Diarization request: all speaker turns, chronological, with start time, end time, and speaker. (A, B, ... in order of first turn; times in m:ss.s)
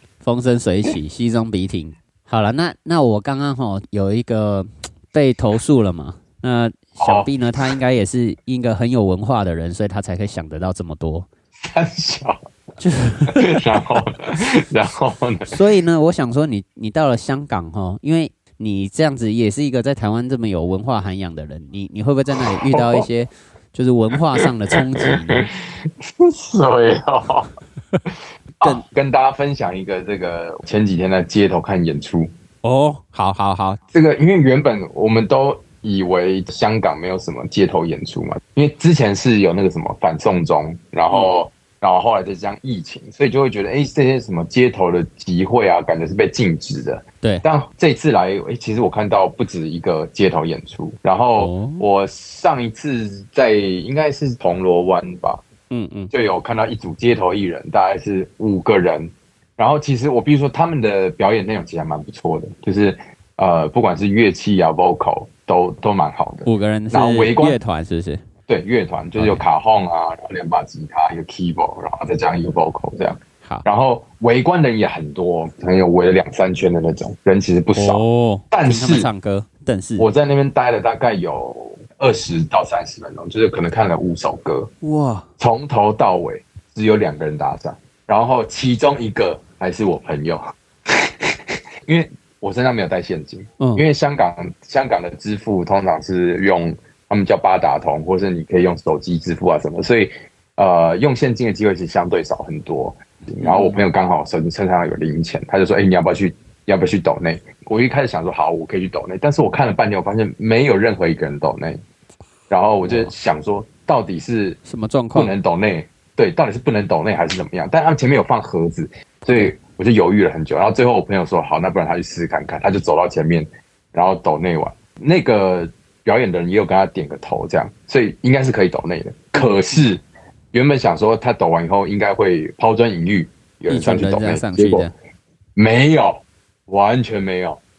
0:00.2-0:11.3 A
0:07.0-0:07.3 B
0:11.7-0:12.4 B
0:12.8-0:14.0 A
0:13.3-0:15.5 B
0:15.5-0:25.5 A
0:22.4-0:23.1 B
0:24.4-0:27.5 B
0:28.6-0:32.3 B
0:32.6-0:33.8 A
0:33.9-0:55.4 B
0:51.4-0:51.9 A
0:55.7-0:56.1 A
0:56.1-1:07.6 B
1:06.5-1:08.2 A
1:08.5-1:19.1 B
1:09.2-1:09.4 A
1:17.8-1:20.1 A
1:20.0-1:24.7 B
1:24.8-1:25.3 A
1:25.4-1:51.8 B
1:33.6-1:33.8 A
1:43.4-1:43.8 A
1:52.5-1:54.6 B
1:52.8-1:53.1 A
1:54.6-1:55.3 A
1:55.1-2:14.9 B
2:13.7-2:14.9 A
2:15.6-2:17.6 B